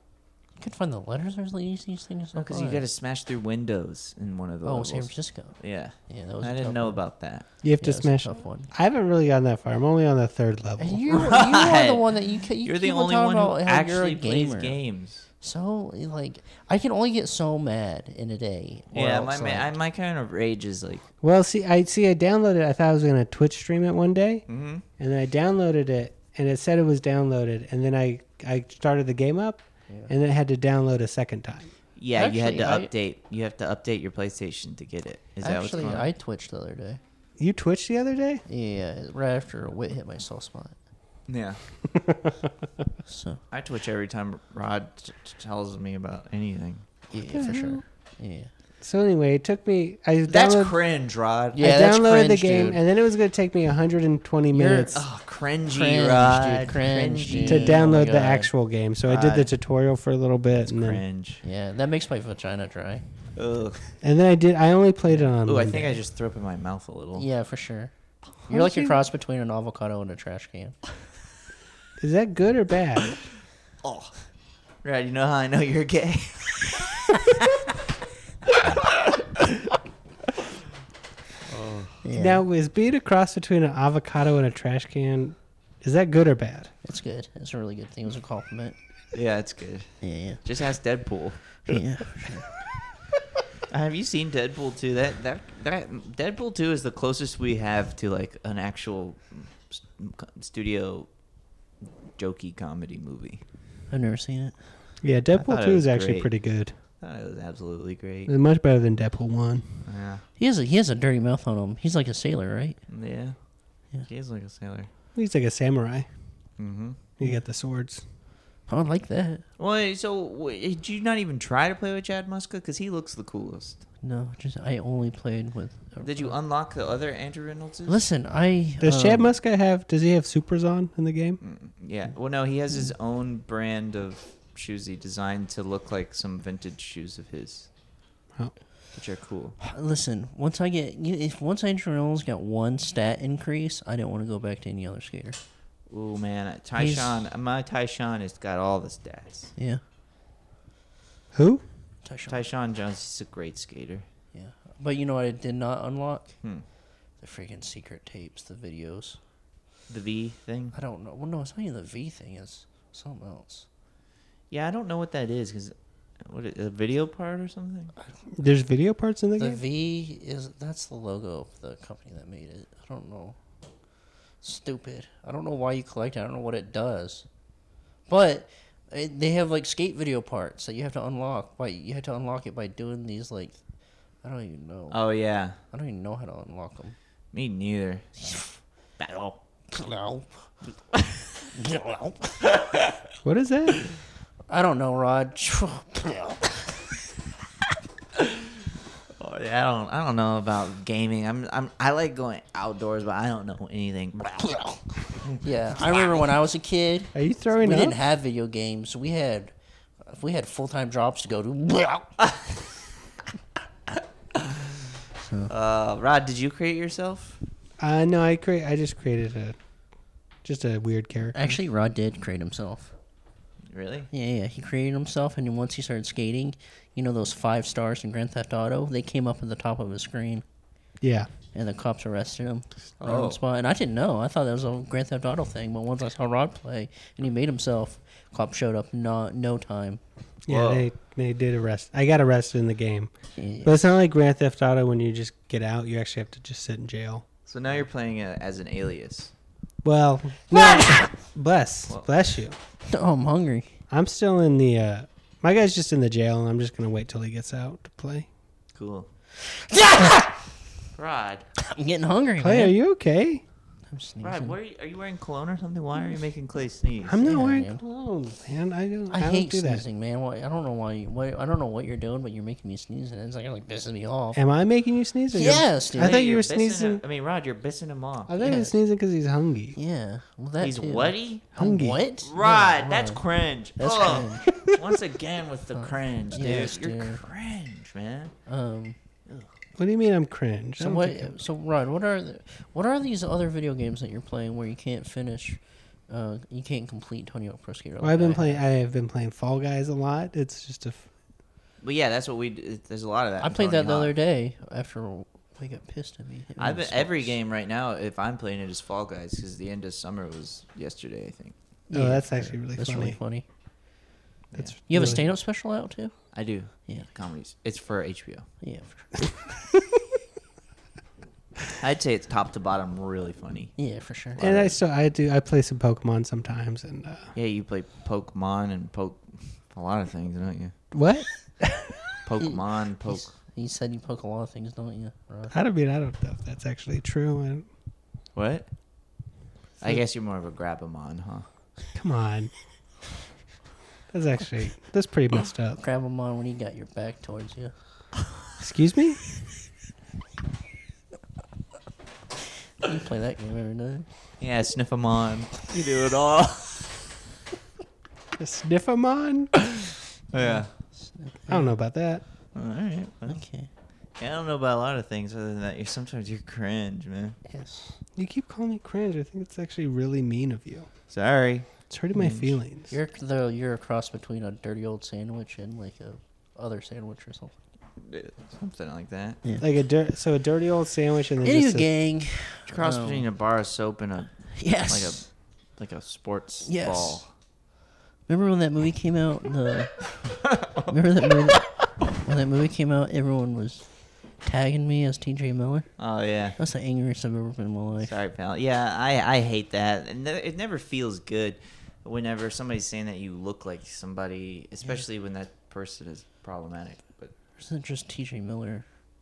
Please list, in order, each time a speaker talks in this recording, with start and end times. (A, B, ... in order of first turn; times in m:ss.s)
0:00.6-0:02.8 A
0:02.4-0:07.5 B
0:04.6-0:07.0 A
0:07.6-0:11.3 C
0:07.8-0:08.7 A
0:10.8-0:14.8 A
0:11.2-0:12.0 B
0:12.6-0:15.3 B
0:15.4-0:19.7 A
0:18.9-0:21.1 B
0:21.2-0:24.5 C
0:24.5-0:24.8 B
0:25.0-0:31.7 C
0:32.0-0:36.1 B
0:32.2-0:32.9 A
0:35.4-0:37.0 A
0:37.4-0:38.4 C
0:38.5-0:40.8 A
0:41.3-0:41.6 B
0:43.1-0:43.4 A
0:43.5-0:46.9 B
0:47.1-0:48.5 A
0:47.3-0:47.8 C
0:48.8-0:50.8 C
0:50.3-0:51.6 B
0:51.5-0:52.8 A
0:51.6-0:55.0 C
0:54.5-0:55.0 A
0:54.9-0:57.9 B
0:55.7-0:58.5 A
0:57.4-1:01.0 C
0:59.1-0:59.5 B
1:00.6-1:01.4 B
1:01.4-1:03.0 A
1:03.4-1:03.8 B
1:04.0-1:06.0 C
1:05.5-1:07.3 B
1:07.2-1:07.9 A
1:08.4-1:10.8 A
1:08.5-1:09.0 C
1:12.0-1:13.2 C
1:13.8-1:14.2 B
1:14.8-1:17.4 B
1:18.6-1:19.7 B
1:21.5-1:22.0 B
1:22.0-1:22.4 A
1:22.1-1:26.7 C
1:26.8-1:28.8 A
1:29.1-1:31.8 B
1:30.0-1:30.4 A
1:31.6-1:32.5 A
1:33.7-1:41.1 B
1:42.2-1:43.4 B
1:43.9-1:44.6 A
1:45.0-1:46.7 C
1:45.3-1:46.3 B
1:47.0-1:48.3 B
1:48.3-1:49.6 C
1:49.8-1:50.2 B
1:50.4-1:52.8 A
1:52.9-1:53.4 B
1:54.0-1:54.9 B
1:55.2-1:56.1 C
1:56.6-1:57.0 B
1:57.2-1:58.0 C
1:58.7-1:59.4 A
1:59.6-2:03.8 B
2:04.0-2:06.4 A
2:06.0-2:08.0 B
2:07.9-2:09.3 A
2:08.8-2:11.4 C
2:11.4-2:17.7 B
2:18.9-2:19.6 B
2:19.6-2:25.4 A
2:25.9-2:29.5 B
2:26.8-2:27.2 A
2:29.6-2:29.8 A
2:31.3-2:31.6 C
2:32.0-2:32.4 A
2:32.3-2:34.1 B
2:34.3-2:36.4 A
2:37.2-2:39.2 A
2:39.9-2:40.8 B
2:40.7-2:43.7 A
2:44.5-2:47.9 B
2:48.3-2:49.6 C
2:49.4-2:53.4 A
2:54.4-2:57.3 A
2:58.1-3:03.6 A
3:04.2-3:05.0 A
3:04.9-3:05.6 B
3:05.7-3:07.0 A
3:07.3-3:08.2 B
3:08.2-3:08.5 A
3:09.0-3:09.4 B
3:09.7-3:10.5 A
3:11.5-3:12.5 A
3:13.2-3:13.8 C
3:14.5-3:16.6 A
3:19.2-3:24.6 B
3:25.2-3:26.3 B
3:25.4-3:32.1 A
3:27.1-3:28.0 C
3:35.2-3:35.5 A
3:35.5-3:37.4 B
3:37.8-3:39.6 C
3:40.4-3:41.5 C
3:41.3-3:42.9 A
3:43.7-3:44.1 B
3:44.1-3:50.4 A
3:51.0-3:51.3 C
3:51.5-4:00.0 A
3:53.0-3:53.4 B
4:00.5-4:03.1 C
4:00.5-4:00.9 B
4:03.4-4:03.7 A
4:03.6-4:07.2 C
4:07.5-4:09.3 B
4:09.8-4:12.6 C
4:10.7-4:11.1 A
4:12.9-4:13.8 A
4:13.9-4:18.3 C
4:18.8-4:19.1 B
4:19.4-4:20.3 A
4:21.0-4:21.5 B
4:21.7-4:22.8 A
4:22.4-4:23.4 C
4:23.9-4:24.6 A
4:24.2-4:27.3 B
4:27.0-4:29.8 C
4:27.2-4:27.8 A
4:29.1-4:34.4 A
4:34.4-4:37.0 C
4:35.3-4:36.2 A
4:36.0-4:38.6 B
4:38.3-4:39.8 C
4:38.4-4:38.8 A
4:39.8-4:43.2 A
4:40.6-4:41.4 B
4:41.5-4:42.0 C
4:42.2-4:48.3 B
4:43.8-4:44.6 A
4:45.8-4:47.2 A
4:48.5-4:49.0 A
4:49.8-4:51.4 C
4:50.8-4:58.6 A
4:58.0-5:01.1 C
5:01.8-5:04.1 B
5:03.4-5:07.4 A
5:06.6-5:11.6 B
5:11.9-5:13.4 A
5:11.9-5:13.2 C
5:14.5-5:15.3 B
5:14.6-5:15.2 C
5:14.9-5:16.2 A
5:16.3-5:18.5 B
5:18.6-5:19.4 A
5:21.8-5:23.8 B
5:23.8-5:24.4 A
5:24.3-5:24.8 B
5:24.4-5:27.3 C
5:27.4-5:30.7 B
5:30.9-5:31.9 C
5:32.2-5:33.3 B
5:32.4-5:35.6 A
5:35.5-5:37.7 C
5:38.4-5:38.7 B
5:39.8-5:41.5 B
5:42.0-5:42.5 C
5:44.1-5:45.8 C
5:45.8-5:47.7 A
5:48.6-5:49.2 C
5:52.8-5:54.1 A
5:54.4-5:57.0 B
5:58.4-5:59.6 C
6:00.3-6:00.7 B
6:00.4-6:01.8 A
6:01.5-6:02.2 C
6:02.6-6:03.4 B
6:03.3-6:03.7 A
6:04.2-6:07.4 B
6:07.5-6:08.0 A
6:08.2-6:10.9 C
6:11.1-6:12.6 B
6:11.9-6:12.9 C
6:12.9-6:17.6 A
6:18.0-6:19.4 B
6:19.6-6:21.9 C
6:21.4-6:23.3 A
6:22.7-6:27.3 B
6:24.6-6:25.3 A
6:26.6-6:27.3 A
6:28.3-6:30.1 A
6:30.4-6:30.9 B
6:30.9-6:35.9 A
6:36.0-6:36.6 B
6:36.6-6:38.1 A
6:38.0-6:47.3 B
6:47.6-6:48.8 A